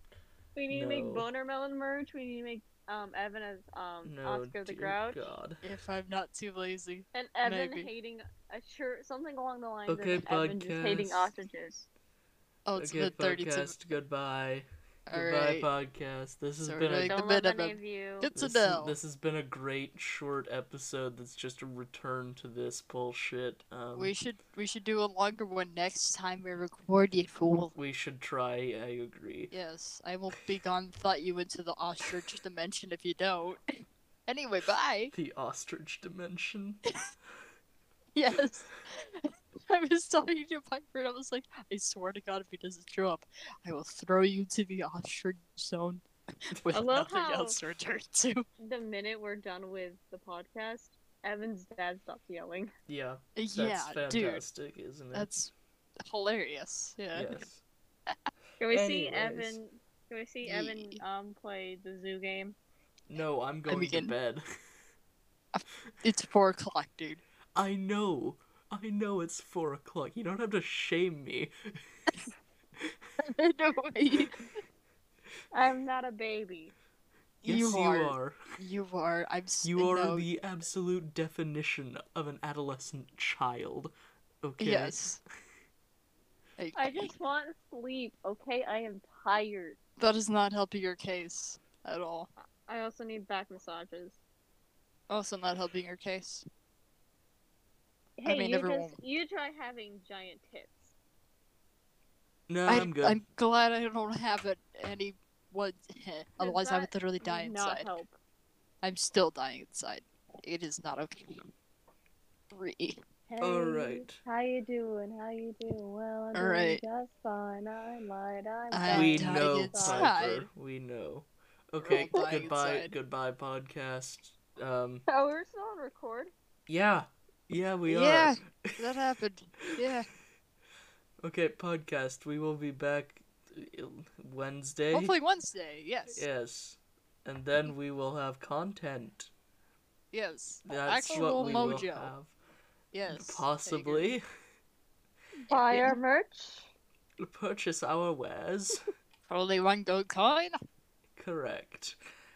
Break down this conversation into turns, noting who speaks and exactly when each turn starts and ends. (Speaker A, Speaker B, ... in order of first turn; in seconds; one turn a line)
Speaker A: 0.5-5.3
Speaker B: 0.7-1.3
Speaker B: 4.0-5.6
Speaker C: 5.6-7.9
Speaker A: 7.1-11.9
Speaker B: 9.9-11.3
Speaker C: 12.7-13.8
Speaker B: 12.8-17.2
Speaker C: 15.1-15.7
Speaker C: 16.6-18.9
Speaker A: 17.1-18.3
Speaker B: 18.3-24.1
Speaker C: 23.9-27.7
Speaker B: 27.7-29.5
Speaker C: 29.5-33.6
Speaker C: 34.3-35.1
Speaker B: 35.1-36.8
Speaker C: 38.1-48.5
Speaker A: 46.7-47.6
Speaker A: 48.6-52.7
Speaker B: 52.9-55.3
Speaker C: 53.4-54.4
Speaker C: 55.1-57.4
Speaker B: 57.1-57.6
Speaker A: 58.6-62.5
Speaker B: 58.6-59.6
Speaker C: 60.4-61.0
Speaker B: 63.1-64.4
Speaker C: 63.7-64.1
Speaker C: 65.5-67.2
Speaker B: 67.5-72.2
Speaker C: 73.2-74.5
Speaker A: 75.5-76.7
Speaker C: 77.4-80.2
Speaker B: 77.4-78.4
Speaker B: 79.6-85.1
Speaker C: 84.6-85.2
Speaker C: 86.6-87.1
Speaker A: 86.7-89.8
Speaker C: 90.0-92.3
Speaker A: 92.7-94.2
Speaker C: 95.1-96.5
Speaker A: 98.2-100.9
Speaker C: 98.2-99.0
Speaker B: 102.5-103.2
Speaker C: 102.7-107.9
Speaker A: 106.4-108.2
Speaker C: 108.8-111.5
Speaker C: 112.5-113.0
Speaker A: 113.3-120.2
Speaker B: 113.4-114.2
Speaker C: 116.3-116.8
Speaker C: 118.7-120.5
Speaker B: 118.9-125.0
Speaker C: 121.8-122.9
Speaker A: 122.1-122.5
Speaker A: 125.1-126.3
Speaker B: 126.7-128.8
Speaker C: 127.8-130.1
Speaker B: 131.2-135.1
Speaker C: 134.9-136.2
Speaker B: 136.1-139.3
Speaker C: 140.1-142.1
Speaker B: 140.6-142.3
Speaker A: 141.1-141.7
Speaker C: 142.9-144.1
Speaker B: 143.1-144.2
Speaker A: 145.5-146.7
Speaker C: 145.5-145.9
Speaker B: 147.2-148.9
Speaker C: 149.3-150.6
Speaker B: 151.1-152.0